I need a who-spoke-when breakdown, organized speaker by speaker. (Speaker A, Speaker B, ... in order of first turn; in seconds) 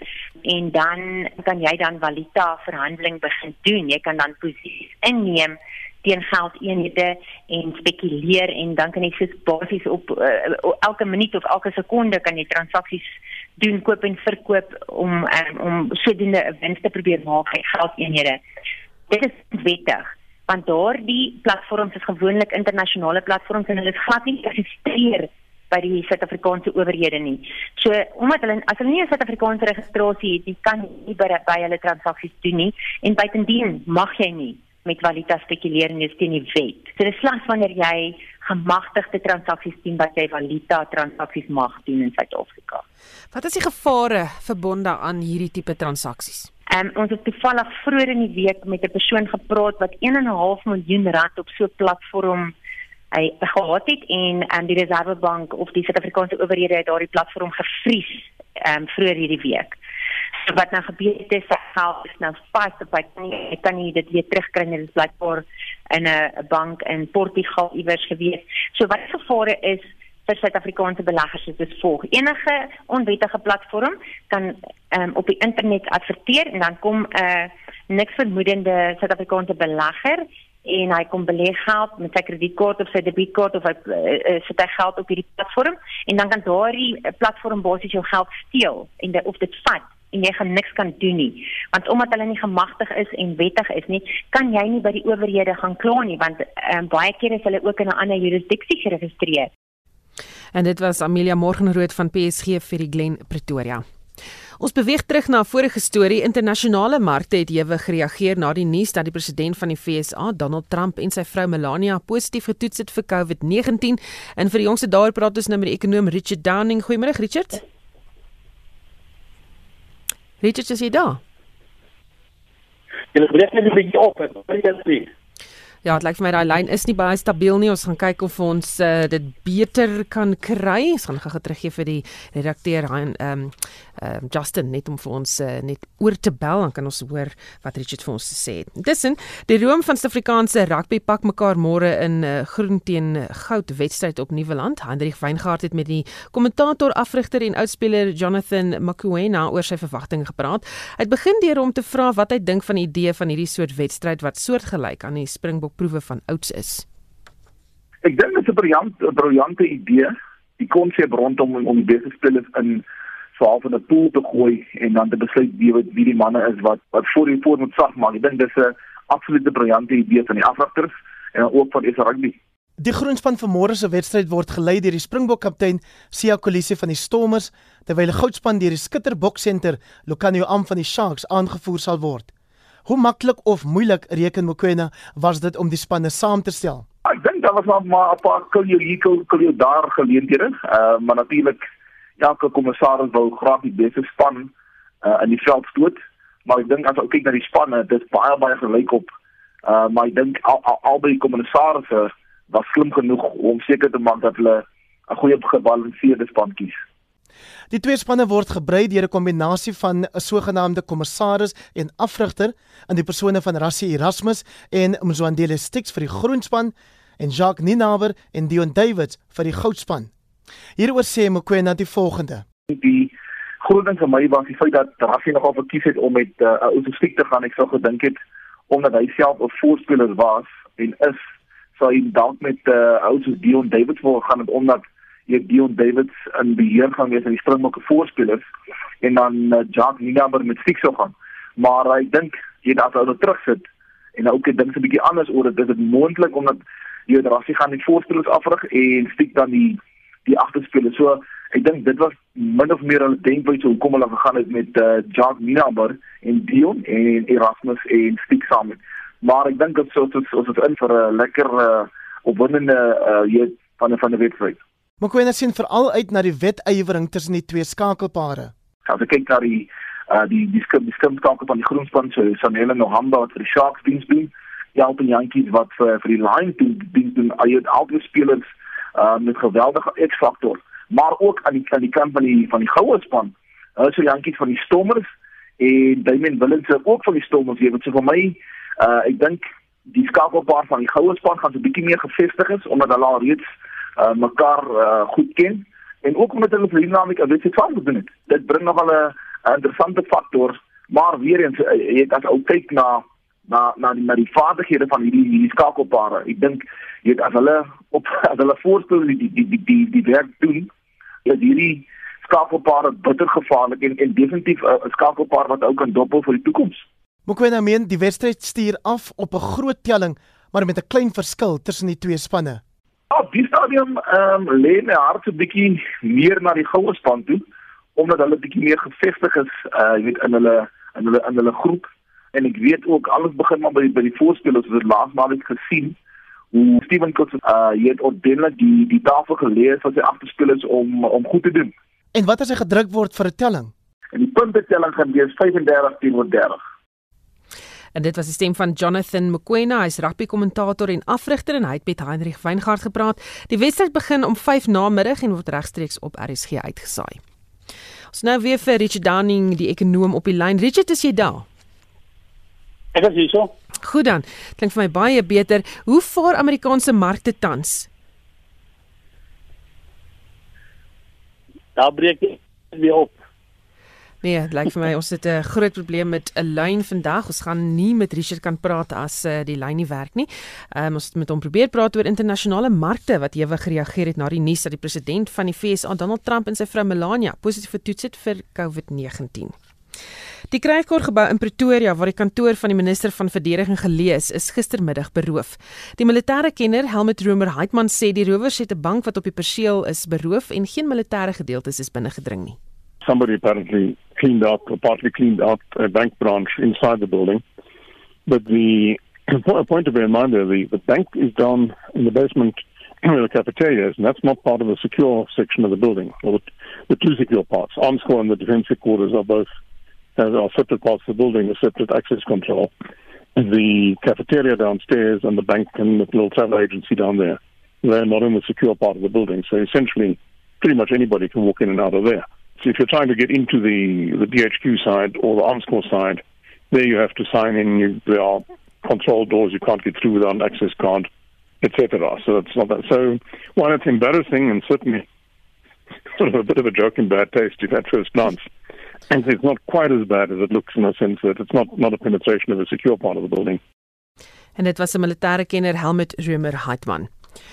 Speaker A: 0.5-18.4, 19.1-42.8, 46.7-52.5, 53.1-59.8, 60.5-99.5
Speaker B: 43.3-46.5, 100.5-103.8, 104.6-117.6, 120.4-121.2, 125.8-156.8, 347.9-357.2, 358.1-361.4, 363.8-367.9, 374.2-389.6, 390.5-402.6, 454.6-457.1
Speaker C: 123.1-125.1, 362.9-363.5, 371.8-373.1
Speaker D: 158.0-162.8, 163.4-172.4, 187.1-191.6, 192.2-194.5, 195.0-199.1, 199.7-206.8, 222.7-228.2, 228.7-231.2, 231.8-238.4, 239.0-264.6, 268.9-285.1, 285.6-310.7, 311.3-316.8, 323.1-327.4, 328.0-336.0, 336.5-341.7, 344.1-346.6
Speaker E: 172.8-182.3, 182.9-186.8, 207.7-220.1, 220.8-222.4, 265.0-268.5, 317.3-322.6, 342.1-343.7
Speaker F: 403.0-407.4, 408.3-419.5, 420.2-422.7, 423.4-441.1, 441.6-445.1, 446.2-448.5, 449.1-453.6